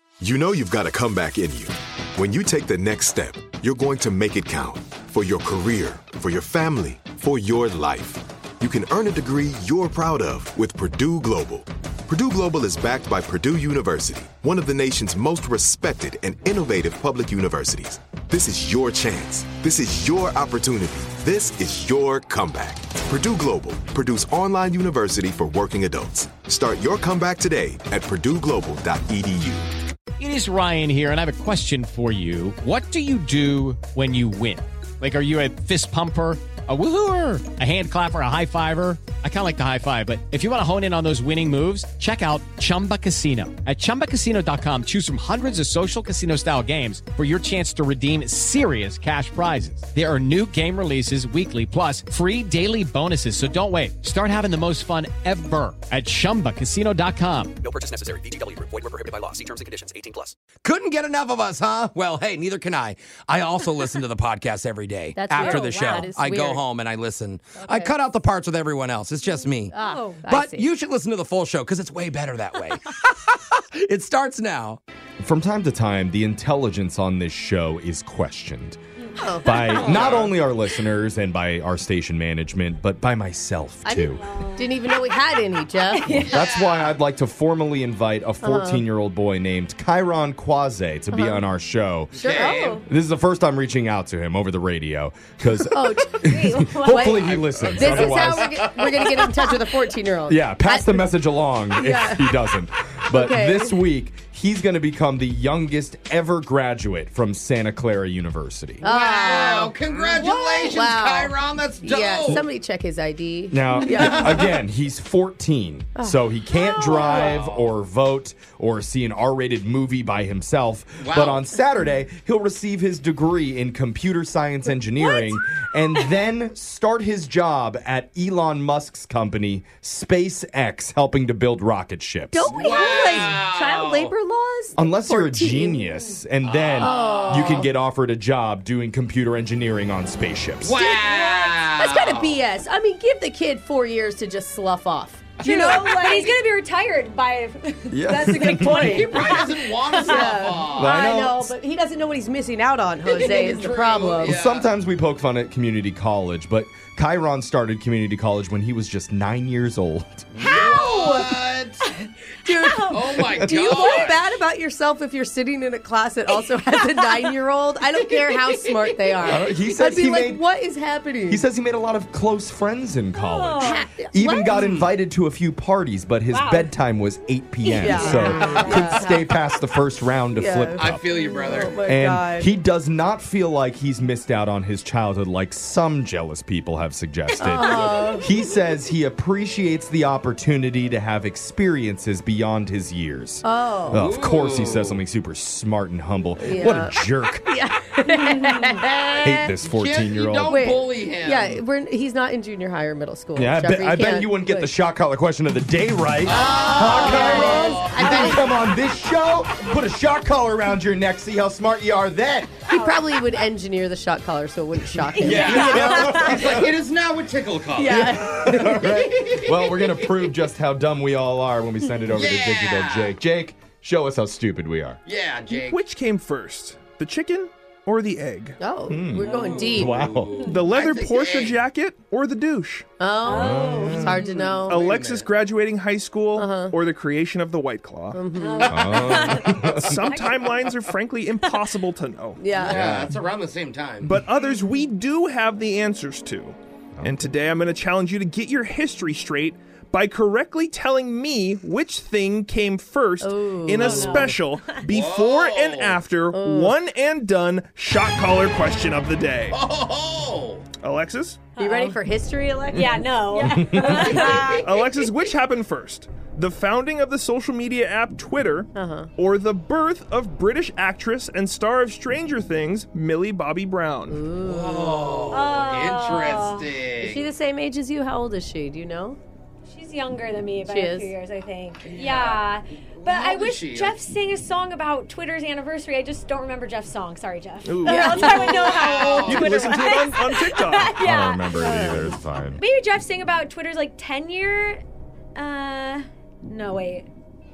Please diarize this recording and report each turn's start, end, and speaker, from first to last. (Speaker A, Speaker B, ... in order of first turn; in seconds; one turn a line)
Speaker A: 0.2-29.7
Speaker B: 30.2-57.6
Speaker C: 57.6-60.3
Speaker D: 60.6-74.8
Speaker E: 65.2-66.6
Speaker F: 65.4-66.0
Speaker E: 67.6-67.9
Speaker E: 69.7-70.6
Speaker F: 69.8-70.2
Speaker G: 75.2-78.8
Speaker F: 79.0-79.4
Speaker E: 79.2-79.8
Speaker G: 79.4-84.3
Speaker D: 79.8-80.3
Speaker E: 83.9-86.2
Speaker F: 84.0-84.7
Speaker F: 86.0-86.4
Speaker G: 86.1-98.6
Speaker D: 86.3-87.0
Speaker E: 88.4-88.8
Speaker E: 91.1-91.4
Speaker E: 92.2-92.8
Speaker D: 92.2-92.8
Speaker E: 95.7-101.2
Speaker F: 96.2-97.2
Speaker D: 97.2-99.6
Speaker G: 100.3-108.9
Speaker E: 101.7-102.3
Speaker E: 103.1-103.8
Speaker E: 108.8-114.5
Speaker D: 108.8-112.5
Speaker G: 113.5-132.6
Speaker D: 114.1-114.4
Speaker E: 116.0-117.3
Speaker D: 117.2-117.7
Speaker D: 121.0-121.4
Speaker E: 132.3-135.8
Speaker D: 132.5-134.1
Speaker G: 134.8-140.8
Speaker D: 136.4-137.7
Speaker E: 136.8-137.7
Speaker D: 140.6-142.4
Speaker E: 140.7-146.3
Speaker F: 145.4-150.4
Speaker G: 147.9-149.0
Speaker E: 148.2-149.2
Speaker D: 148.7-151.0
Speaker E: 150.0-154.4
Speaker G: 150.8-151.5
Speaker D: 153.1-154.7
Speaker G: 154.2-160.3
Speaker D: 160.3-161.8
Speaker E: 160.4-161.4
Speaker E: 162.4-171.4
Speaker D: 162.9-164.2
Speaker G: 163.3-163.7
Speaker D: 169.1-169.5
Speaker G: 169.2-170.4
Speaker G: 171.3-181.1
Speaker F: 173.2-173.8
Speaker E: 173.6-174.6
Speaker D: 174.5-174.9
Speaker F: 176.3-176.7
Speaker E: 177.8-179.3
Speaker F: 178.0-178.6
Speaker D: 178.4-178.7
Speaker E: 180.4-182.5
Speaker D: 180.8-181.8
Speaker G: 181.8-197.5
Speaker E: 187.4-188.3
Speaker E: 193.4-194.0
Speaker D: 193.9-195.0
Speaker E: 196.4-199.5
Speaker G: 199.2-200.6
Speaker D: 199.6-201.6
Speaker E: 200.5-204.7
Speaker G: 203.3-212.6
Speaker D: 206.2-208.4
Speaker E: 206.4-208.4
Speaker F: 206.5-207.8
Speaker E: 212.7-216.6
Speaker F: 212.7-213.2
Speaker G: 215.2-216.7
Speaker F: 215.2-216.3
Speaker D: 215.2-220.0
Speaker E: 217.8-218.9
Speaker G: 218.2-225.0
Speaker D: 222.1-223.1
Speaker D: 225.1-225.8
Speaker H: 225.5-228.6
Speaker E: 228.6-230.0
Speaker G: 228.9-230.4
Speaker D: 229.2-231.6
Speaker H: 230.5-232.9
Speaker E: 233.0-234.8
Speaker F: 233.2-234.5
Speaker G: 233.2-234.2
Speaker D: 234.2-235.3
Speaker H: 234.7-238.2
Speaker E: 236.4-236.8
Speaker E: 238.1-238.7
Speaker F: 238.4-240.7
Speaker D: 238.6-239.7
Speaker G: 238.7-239.9
Speaker H: 239.5-242.4
Speaker E: 242.4-242.9
Speaker D: 242.6-244.2
Speaker G: 242.6-243.2
Speaker H: 244.0-259.6
Speaker G: 247.0-247.3
Speaker E: 253.2-254.4
Speaker F: 253.8-254.8
Speaker D: 254.9-256.0
Speaker E: 256.3-256.8
Speaker D: 259.5-260.7
Speaker H: 260.8-261.4
Speaker F: 261.6-262.0
Speaker E: 261.6-264.4
Speaker F: 262.7-264.7
Speaker D: 264.0-264.7
Speaker H: 264.5-274.3
Speaker E: 268.8-269.1
Speaker E: 274.1-275.3
Speaker D: 274.4-277.3
Speaker F: 275.3-276.7
Speaker E: 277.0-279.2
Speaker F: 279.7-294.8
Speaker E: 280.6-281.1
Speaker D: 281.9-282.4
Speaker D: 282.9-284.0
Speaker H: 287.6-288.6
Speaker E: 287.9-288.8
Speaker D: 288.6-289.7
Speaker H: 289.3-291.0
Speaker G: 291.0-292.6
Speaker E: 291.6-292.1
Speaker F: 295.4-297.1